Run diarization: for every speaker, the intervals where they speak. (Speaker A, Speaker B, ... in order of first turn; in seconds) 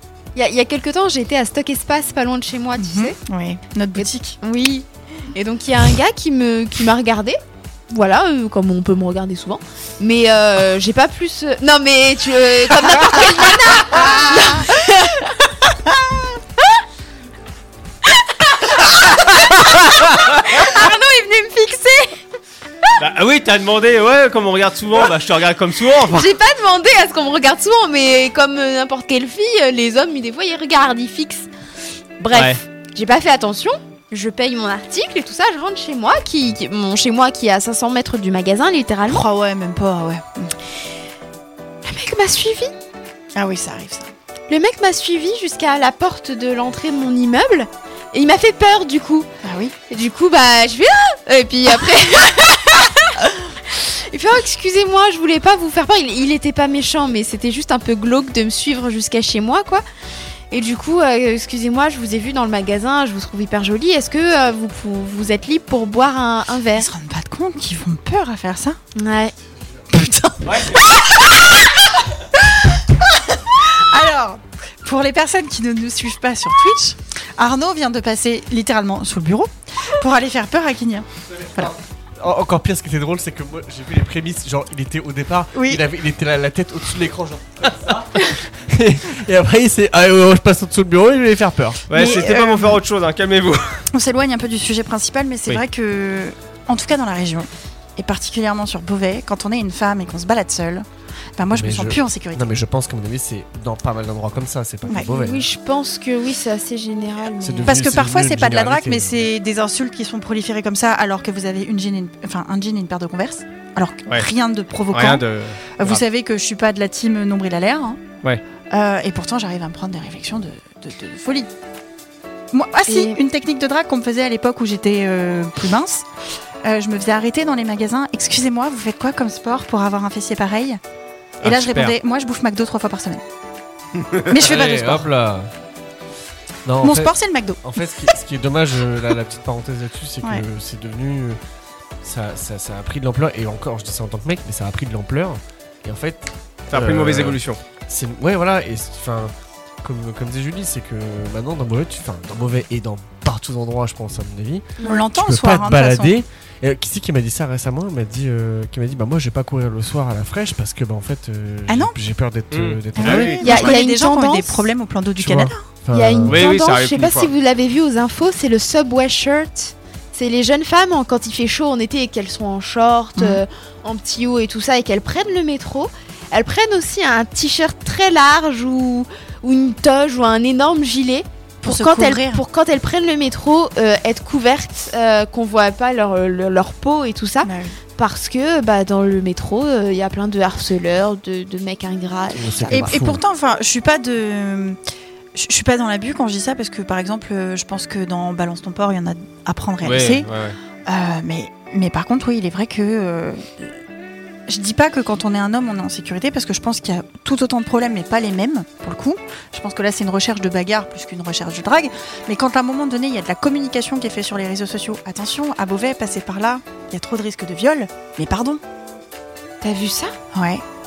Speaker A: 0.3-3.1, 4.0-15.7, 18.1-22.2, 26.1-31.5, 32.2-39.2, 41.8-42.7, 44.5-49.3, 49.9-59.8, 60.5-66.9, 69.0-69.3, 104.9-107.7, 122.9-123.2, 154.8-155.1, 163.4-164.7, 165.9-192.9, 219.6-220.2
Speaker B: 2.8-4.4, 13.9-14.4, 39.0-40.5, 43.4-44.1, 49.4-49.7, 66.7-68.8, 69.9-71.6, 72.6-72.8, 73.5-81.7, 85.5-85.8, 91.9-92.8, 93.9-102.5, 107.6-118.0, 118.7-121.5, 122.5-126.1, 126.6-130.8, 131.4-133.2, 134.3-135.1, 136.8-137.6, 154.8-156.2, 161.7-161.9, 162.9-165.6, 173.2-173.4, 181.6-182.4, 187.4-187.8, 192.7-194.8, 195.3-200.3, 200.8-203.8, 204.5-218.6, 220.3-220.6
Speaker C: 23.0-26.3, 32.3-32.6, 70.4-70.8, 91.9-93.8, 114.9-116.0, 131.4-131.9, 146.7-147.6, 162.5-163.7, 166.2-167.3, 199.8-200.6
Speaker D: 81.4-91.8, 101.5-105.5, 107.4-109.2, 134.3-135.5, 136.6-141.4, 142.0-163.7, 165.2-166.5, 192.3-193.2